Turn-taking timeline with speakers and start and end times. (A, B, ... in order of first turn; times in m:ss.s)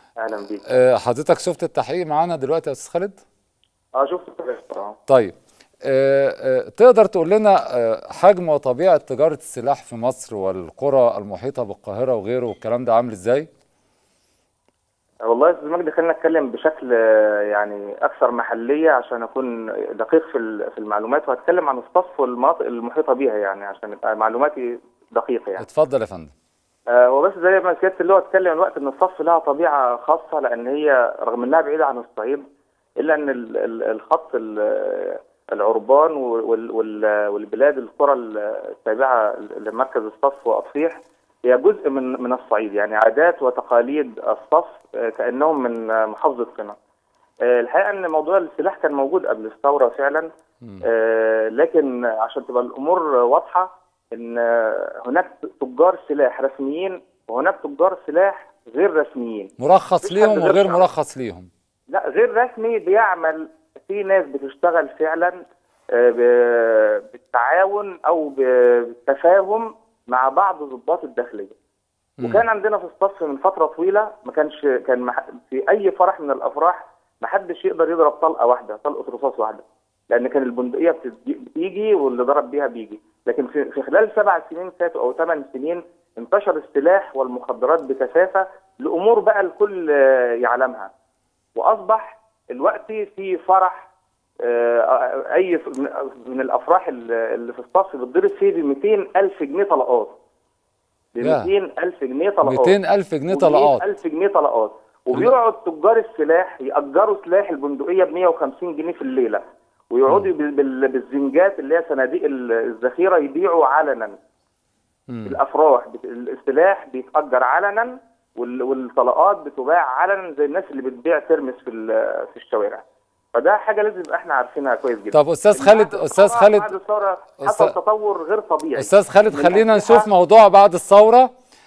0:00.2-0:00.7 A
0:00.7-0:03.2 B
0:04.0-0:05.0 A
0:05.1-0:05.3 B
0:05.8-0:13.5 B
0:15.2-0:25.6 A
0:25.6-0:26.3 B
0:26.9-0:32.4 A
0:33.0-0:46.8 A
0:47.5-0:50.3 A
0:50.8-1:00.8 A
0:59.6-1:01.5 B
1:01.9-1:05.4 A
1:05.9-1:11.5 A
1:12.2-1:12.4 B
1:12.2-1:30.9 A
1:31.5-1:33.9 A
1:34.4-1:40.2 A
1:41.1-1:42.8 A
1:41.2-1:41.5 B
1:42.4-1:43.8 B
1:43.3-1:54.2 A
1:55.1-1:55.4 B
1:55.2-2:02.8 A
2:03.3-2:10.1 A
2:05.1-2:06.7 B
2:07.4-2:07.7 B
2:08.8-2:11.3 B